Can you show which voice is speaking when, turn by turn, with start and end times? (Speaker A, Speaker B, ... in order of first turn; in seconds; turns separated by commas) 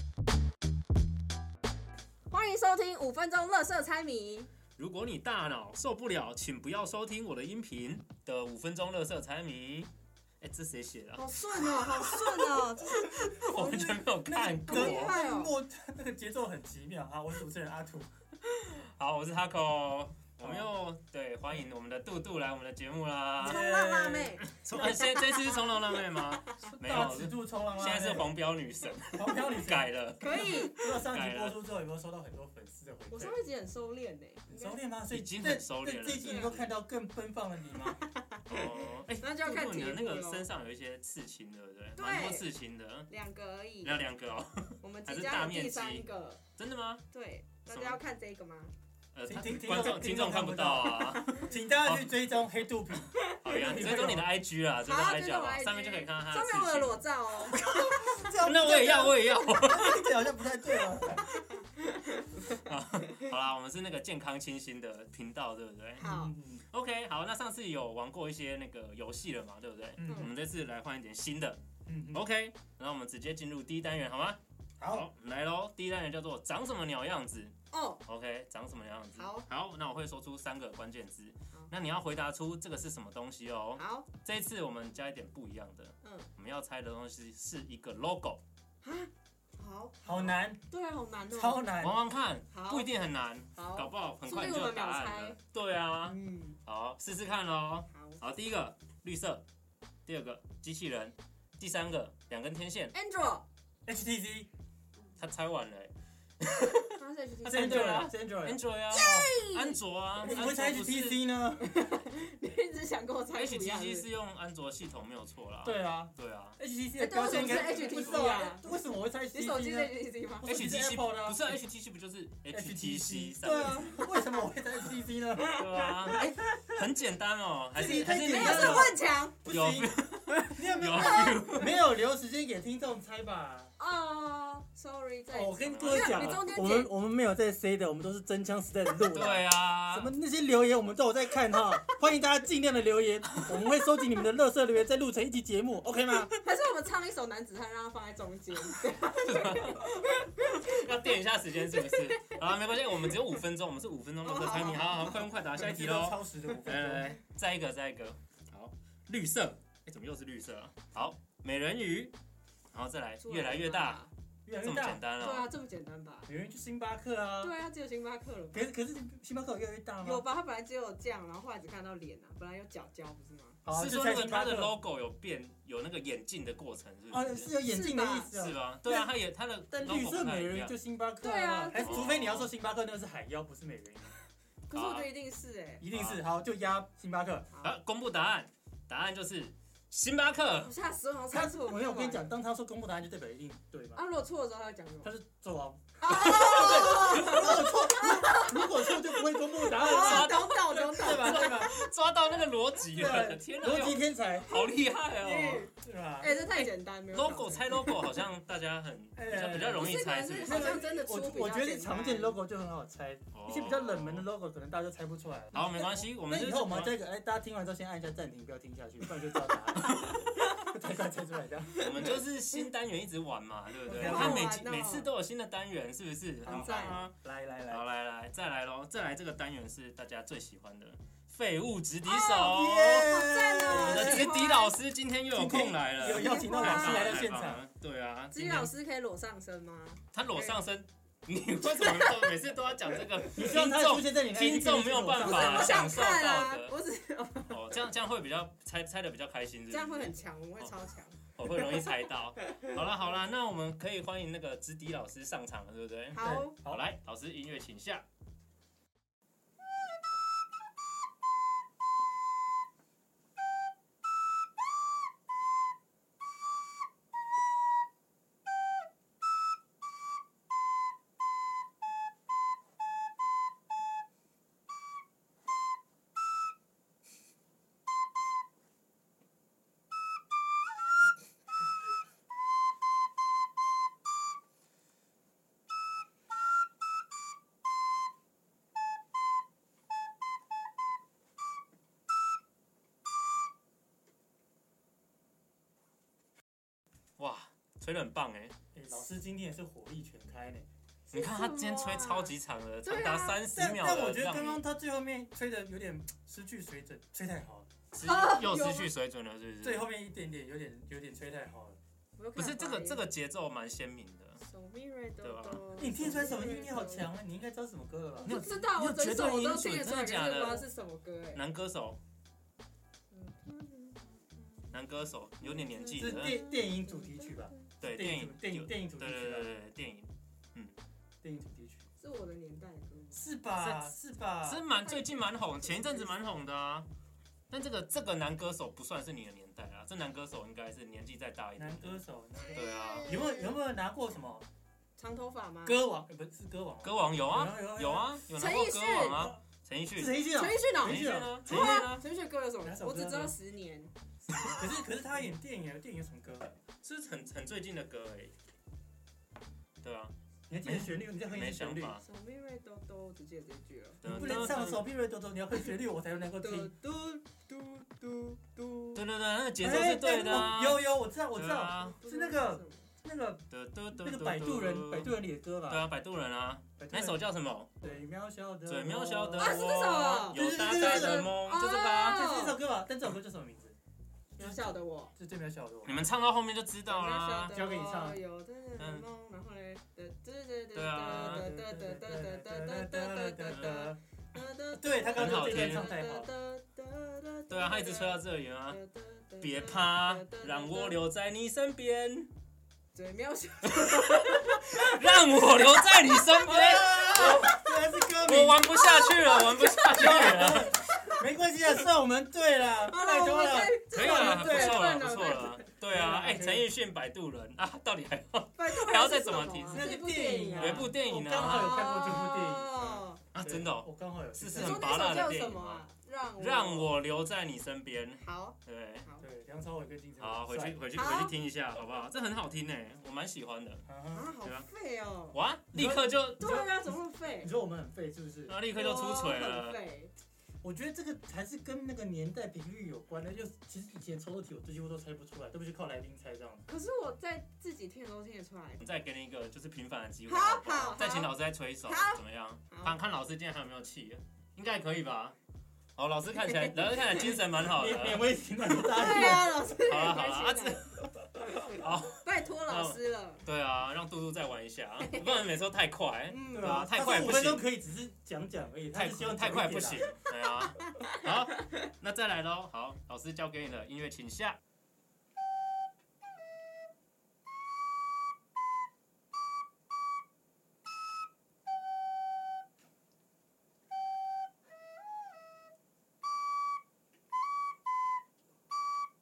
Speaker A: 2.3-4.5, Speaker B: 4.8-15.2, Speaker A: 11.1-13.8, Speaker C: 13.5-18.1, Speaker A: 14.6-15.5, Speaker B: 18.5-23.6, Speaker C: 20.4-20.7, Speaker C: 23.4-25.0, Speaker A: 23.4-26.7, Speaker B: 24.5-31.6, Speaker C: 26.7-28.3, Speaker C: 29.1-33.4, Speaker A: 30.2-30.8, Speaker A: 33.1-34.8, Speaker C: 34.5-38.0, Speaker B: 35.1-36.7, Speaker A: 36.2-36.5, Speaker A: 38.3-40.5, Speaker B: 38.5-43.1, Speaker A: 42.0-42.5, Speaker A: 43.1-44.0, Speaker B: 43.8-46.0, Speaker A: 44.8-46.4, Speaker B: 46.6-47.0, Speaker A: 47.1-48.7, Speaker B: 47.7-48.0, Speaker B: 49.1-52.1, Speaker C: 49.3-54.3, Speaker A: 50.9-51.5, Speaker A: 53.1-53.8, Speaker B: 53.4-57.0, Speaker A: 54.8-58.1, Speaker C: 57.5-61.2, Speaker B: 57.5-60.2, Speaker A: 61.1-62.6, Speaker B: 62.5-66.1, Speaker A: 66.0-66.3, Speaker C: 66.0-66.6, Speaker B: 66.7-71.6, Speaker C: 70.0-70.3, Speaker C: 71.8-72.2, Speaker B: 72.1-77.5, Speaker C: 74.8-75.1, Speaker A: 77.7-78.0, Speaker B: 78.0-88.4, Speaker A: 79.1-79.5, Speaker A: 83.8-84.1, Speaker A: 86.0-86.3, Speaker A: 88.8-91.6, Speaker C: 90.0-90.6, Speaker C: 91.3-92.0, Speaker B: 91.8-99.4, Speaker A: 92.5-92.9, Speaker A: 93.5-95.4, Speaker A: 96.0-96.6, Speaker A: 97.9-98.2, Speaker B: 100.0-102.9, Speaker A: 102.9-103.5, Speaker C: 103.8-104.5, Speaker B: 105.2-111.2, Speaker A: 107.0-108.1, Speaker C: 107.5-109.3, Speaker A: 108.9-110.3, Speaker C: 110.2-111.7, Speaker A: 111.6-114.1, Speaker B: 113.3-116.6, Speaker C: 115.6-121.6, Speaker A: 117.0-118.7, Speaker B: 117.3-118.2, Speaker A: 119.3-120.5, Speaker B: 120.4-124.0, Speaker C: 122.5-126.4, Speaker A: 123.6-124.5, Speaker A: 125.4-126.3, Speaker B: 125.5-128.9, Speaker C: 127.7-129.9, Speaker A: 128.1-129.4, Speaker B: 129.4-131.7, Speaker C: 130.5-133.7, Speaker A: 130.8-131.7, Speaker A: 133.8-136.9, Speaker C: 135.3-146.3, Speaker B: 135.6-136.4, Speaker B: 139.0-140.1, Speaker A: 146.3-150.8, Speaker B: 148.9-162.1, Speaker A: 151.7-152.4, Speaker A: 154.2-155.4, Speaker C: 155.5-157.1, Speaker B: 162.7-164.0, Speaker A: 163.2-164.1, Speaker C: 164.4-165.0, Speaker B: 164.6-165.5, Speaker A: 165.2-166.3, Speaker C: 166.3-167.5, Speaker A: 167.4-168.7, Speaker C: 168.5-170.2, Speaker A: 170.0-173.6, Speaker C: 173.6-174.8, Speaker B: 173.7-177.5, Speaker C: 177.1-179.1, Speaker A: 177.6-178.3, Speaker B: 178.3-180.7, Speaker C: 179.7-184.1, Speaker A: 181.2-182.1, Speaker B: 181.7-182.5, Speaker A: 184.7-185.8, Speaker B: 184.7-185.1, Speaker C: 185.8-187.5, Speaker B: 185.9-186.2, Speaker B: 187.6-190.7, Speaker A: 190.6-192.3, Speaker C: 191.3-194.0, Speaker A: 193.9-195.1, Speaker C: 195.0-201.7, Speaker A: 196.0-198.7, Speaker B: 196.3-197.8, Speaker A: 199.7-201.8, Speaker B: 199.8-205.7, Speaker C: 202.9-204.5, Speaker A: 204.5-208.2, Speaker C: 205.8-206.3, Speaker B: 206.3-210.8, Speaker C: 209.2-222.2, Speaker A: 209.8-212.4, Speaker B: 213.3-214.3, Speaker B: 215.5-217.0, Speaker A: 220.2-220.7, Speaker B: 221.8-227.1, Speaker A: 221.8-222.1, Speaker C: 223.9-224.5, Speaker A: 223.9-225.1, Speaker C: 226.4-227.8, Speaker A: 226.4-227.1, Speaker B: 227.7-233.1, Speaker A: 232.1-232.5, Speaker C: 232.3-234.2, Speaker A: 233.0-234.7, Speaker B: 233.6-238.7, Speaker C: 235.3-237.6, Speaker A: 236.0-237.2, Speaker A: 238.3-240.6, Speaker B: 240.1-246.7, Speaker A: 241.6-242.3, Speaker C: 243.3-245.9, Speaker A: 245.2-247.8, Speaker B: 247.5-250.7, Speaker A: 249.7-251.9, Speaker B: 251.3-258.0, Speaker A: 252.5-252.7, Speaker A: 256.1-256.6, Speaker C: 256.2-256.8, Speaker B: 297.2-298.5, Speaker C: 298.7-300.6, Speaker A: 301.1-303.4, Speaker B: 301.1-304.6, Speaker C: 303.5-307.7, Speaker A: 307.9-308.9, Speaker B: 307.9-309.9, Speaker C: 309.6-311.8, Speaker A: 312.1-313.0, Speaker B: 312.4-314.4, Speaker A: 314.4-317.1, Speaker B: 315.2-315.9, Speaker C: 315.8-318.4, Speaker A: 318.2-321.4, Speaker B: 318.2-320.6, Speaker B: 321.3-322.0, Speaker A: 323.1-324.8, Speaker B: 324.7-326.4, Speaker A: 325.4-327.7, Speaker C: 325.9-329.5, Speaker B: 327.8-330.7, Speaker C: 331.2-331.8, Speaker A: 332.0-333.2, Speaker C: 333.1-334.6, Speaker B: 333.6-336.9, Speaker A: 334.8-336.2, Speaker B: 337.5-342.0, Speaker C: 341.6-344.4, Speaker A: 342.4-343.5, Speaker B: 342.5-343.2, Speaker A: 345.0-345.8, Speaker C: 345.6-348.1, Speaker B: 346.8-350.2, Speaker A: 348.3-349.3, Speaker C: 349.9-351.9, Speaker A: 350.3-353.9, Speaker B: 350.8-352.0, Speaker C: 352.6-353.3, Speaker C: 354.4-356.5, Speaker B: 356.8-358.3, Speaker B: 359.8-362.0, Speaker C: 360.5-362.0, Speaker A: 362.0-364.6, Speaker B: 364.0-364.8, Speaker C: 364.0-366.7, Speaker A: 366.4-369.0, Speaker B: 368.9-372.0, Speaker C: 369.6-373.4, Speaker A: 371.8-372.9, Speaker B: 373.5-378.0, Speaker C: 374.0-375.9, Speaker C: 376.8-377.2, Speaker C: 377.8-379.6, Speaker B: 378.6-382.3, Speaker A: 379.4-382.6, Speaker C: 380.3-381.4, Speaker C: 382.0-383.7, Speaker A: 384.4-385.1, Speaker C: 384.4-386.0, Speaker B: 385.8-387.6, Speaker A: 386.9-401.0, Speaker C: 387.5-388.2, Speaker B: 388.8-389.1, Speaker B: 390.7-391.5, Speaker C: 391.2-394.0, Speaker B: 393.5-393.9, Speaker C: 394.8-396.3, Speaker B: 395.1-395.9, Speaker B: 397.5-398.8, Speaker B: 399.4-402.3, Speaker A: 402.9-407.5, Speaker B: 403.7-410.8, Speaker C: 406.4-408.7, Speaker A: 408.7-410.8, Speaker C: 409.9-414.9, Speaker A: 412.9-415.6, Speaker B: 413.9-420.0, Speaker C: 415.9-416.7, Speaker A: 418.6-423.2, Speaker C: 419.7-422.8, Speaker B: 420.6-425.8, Speaker C: 423.4-425.1, Speaker A: 424.5-427.0, Speaker B: 426.4-429.1, Speaker A: 428.2-429.2, Speaker C: 429.2-430.8, Speaker B: 430.2-433.9, Speaker A: 430.9-431.3, Speaker C: 433.9-434.3, Speaker A: 434.1-435.4, Speaker B: 435.3-436.6, Speaker C: 435.7-436.7, Speaker A: 436.4-437.5, Speaker C: 437.4-438.5, Speaker B: 438.5-439.8, Speaker A: 438.7-440.1, Speaker C: 440.6-446.7, Speaker A: 446.7-448.8, Speaker B: 448.8-455.4, Speaker A: 450.2-453.0, Speaker B: 456.0-458.3, Speaker A: 456.5-457.2, Speaker C: 457.6-459.5, Speaker A: 458.8-463.4, Speaker B: 458.9-460.8, Speaker B: 461.6-467.6, Speaker A: 465.0-465.4, Speaker A: 466.3-467.0, Speaker C: 466.5-470.1, Speaker B: 468.9-474.6, Speaker A: 470.8-471.1